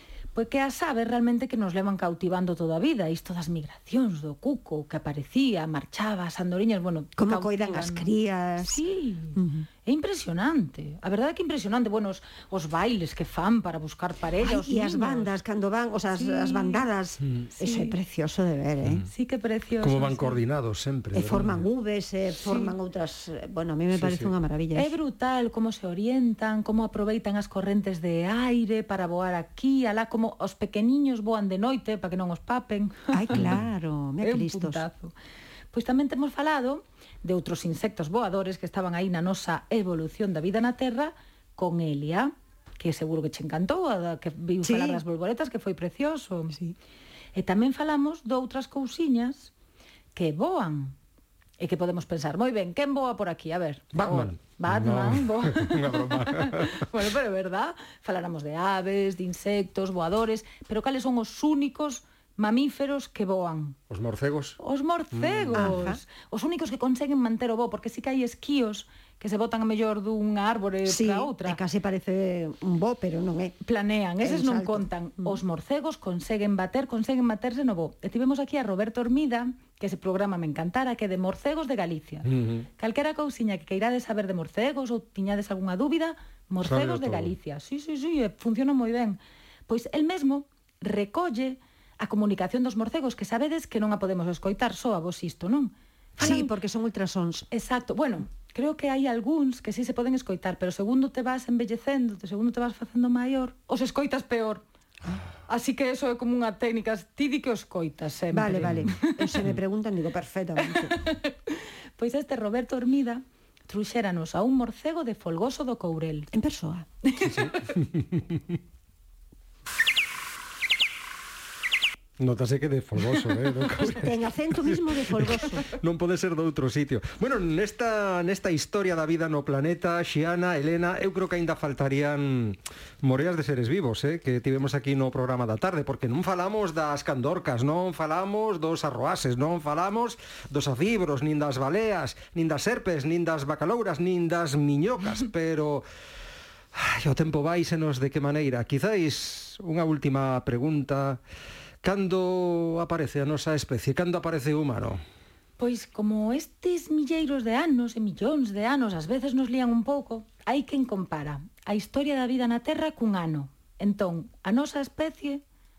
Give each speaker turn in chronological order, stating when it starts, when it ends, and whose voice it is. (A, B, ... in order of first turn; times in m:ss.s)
0:00.3-0:08.1 A
0:07.2-0:08.8 B
0:08.6-0:15.3 A
0:09.4-0:09.7 B
0:14.4-0:19.0 B
0:16.2-0:16.9 A
0:17.6-0:18.0 A
0:19.1-0:20.4 A
0:19.8-0:21.6 C
0:21.1-0:25.0 B
0:22.4-0:22.7 A
0:23.9-0:24.3 C
0:24.7-0:33.4 A
0:33.1-0:34.8 B
0:34.2-0:35.1 A
0:35.7-0:46.6 A
0:44.6-0:45.0 B
0:47.4-0:49.5 A
0:50.2-0:51.0 A
0:51.6-1:03.8 A
0:54.0-0:56.9 C
1:03.9-1:04.6 C
1:04.6-1:11.6 A
1:05.1-1:05.8 C
1:05.5-1:06.0 B
1:10.9-1:13.6 B
1:13.6-1:36.5 A
1:14.2-1:15.4 B
1:22.2-1:22.7 C
1:26.6-1:27.3 C
1:36.2-1:37.5 B
1:37.5-1:44.6 A
1:45.5-1:49.4 A
1:48.3-1:51.0 B
1:50.7-1:56.3 A
1:56.3-1:56.9 B
1:57.0-1:57.5 A
1:57.2-1:58.6 C
2:02.2-2:04.1 C
2:03.8-2:05.7 B
2:04.6-2:25.8 C
2:26.8-2:31.2 C
2:31.8-2:35.0 C
2:35.6-2:45.4 A